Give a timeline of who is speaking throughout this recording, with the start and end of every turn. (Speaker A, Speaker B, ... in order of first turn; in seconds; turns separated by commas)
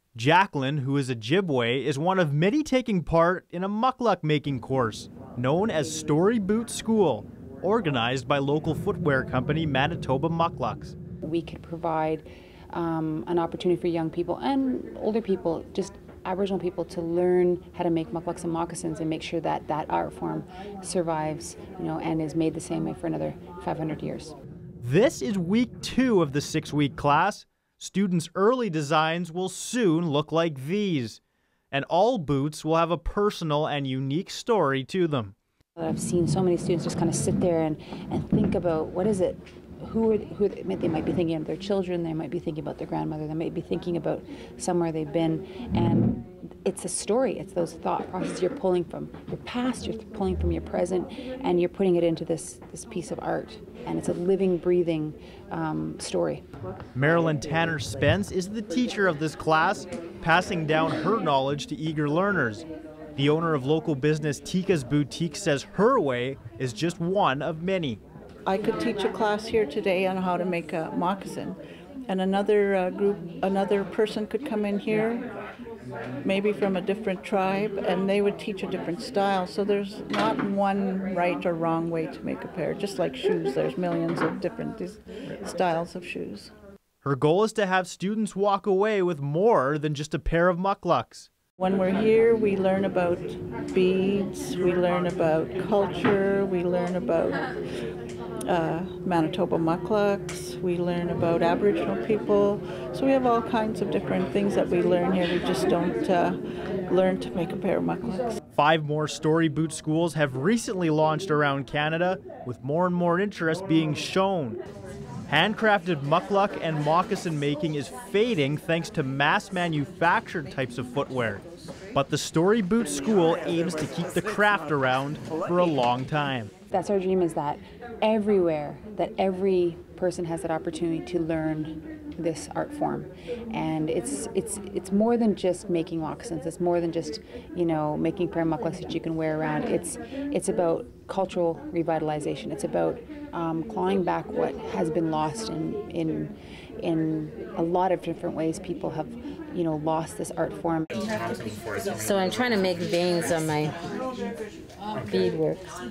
Speaker A: 0.1-10.9, Speaker B: 11.2-24.3, Speaker A: 24.8-31.2, Speaker A: 31.7-35.3, Speaker B: 35.8-56.4, Speaker A: 56.9-68.0, Speaker C: 68.4-75.3, Speaker C: 76.2-86.5, Speaker A: 87.0-91.3, Speaker C: 91.6-97.5, Speaker C: 98.5-108.3, Speaker A: 108.5-114.6, Speaker A: 115.3-126.5, Speaker B: 126.7-150.9, Speaker D: 151.9-153.8, Speaker D: 155.0-155.7